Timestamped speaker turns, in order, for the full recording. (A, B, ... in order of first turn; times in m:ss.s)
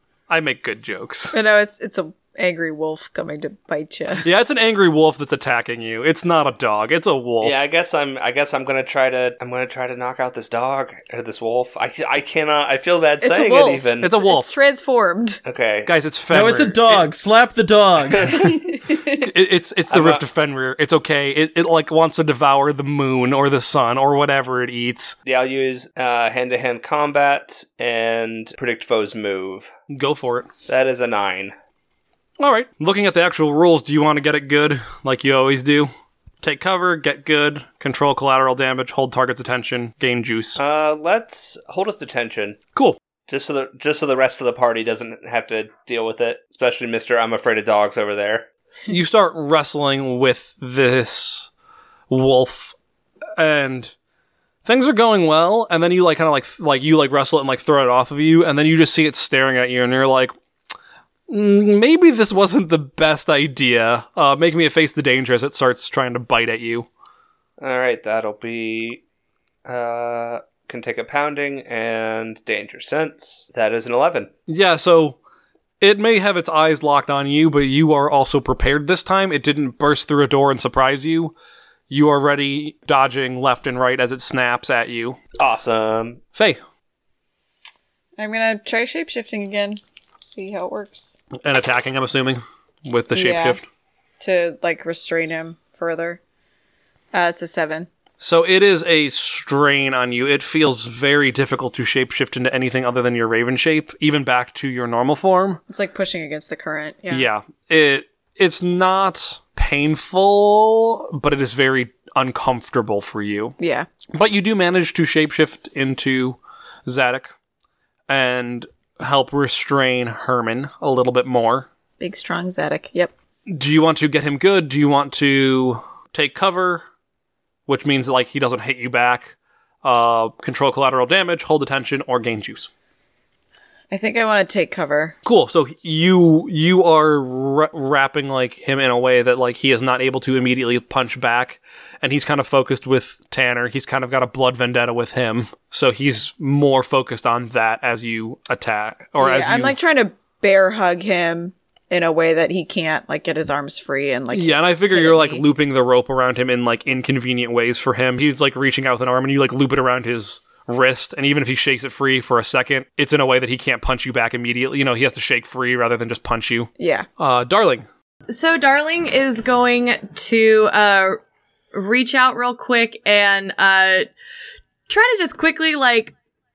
0:00.3-0:01.4 A
0:01.3-0:04.3 B
0:04.2-0:07.6 A
0:07.4-0:14.1 C
0:13.2-0:15.4 B
0:14.0-0:14.5 A
0:15.4-0:15.9 C
0:15.9-0:17.1 A
0:16.3-0:18.7 D
0:18.2-0:18.4 C
0:18.7-0:19.3 B
0:19.1-0:25.2 A
0:19.9-0:20.2 C
0:25.3-0:29.7 C
0:29.9-0:30.5 A
0:30.7-0:31.5 C
0:32.4-0:35.9 A
0:36.4-0:40.6 A
0:40.6-0:42.6 C
0:43.3-0:48.5 C
0:48.9-0:51.5 A
0:52.1-0:52.8 A
0:53.4-0:53.9 A
0:54.6-1:00.3 A
1:01.3-1:06.9 A
1:07.6-1:09.0 C
1:09.7-1:14.3 C
1:14.5-1:15.2 A
1:15.8-1:21.3 A
1:21.9-1:25.2 A
1:25.4-1:26.2 C
1:28.2-1:31.2 B
1:31.4-1:33.6 A
1:33.1-1:33.6 B
1:34.2-1:36.2 B
1:37.1-1:37.9 B
1:38.2-1:45.6 A
1:45.7-1:47.3 B
1:47.1-1:53.6 A
1:53.6-1:53.9 B
1:54.1-1:57.3 A
1:58.1-2:01.7 A
2:02.0-2:03.1 B
2:03.5-2:06.8 A
2:07.7-2:12.7 A
2:13.9-2:15.2 B
2:15.2-2:29.8 A
2:29.2-2:35.4 B
2:34.3-2:47.9 A
2:46.8-2:47.1 B
2:48.3-2:51.2 E
2:51.7-2:54.1 E
2:54.9-2:56.1 E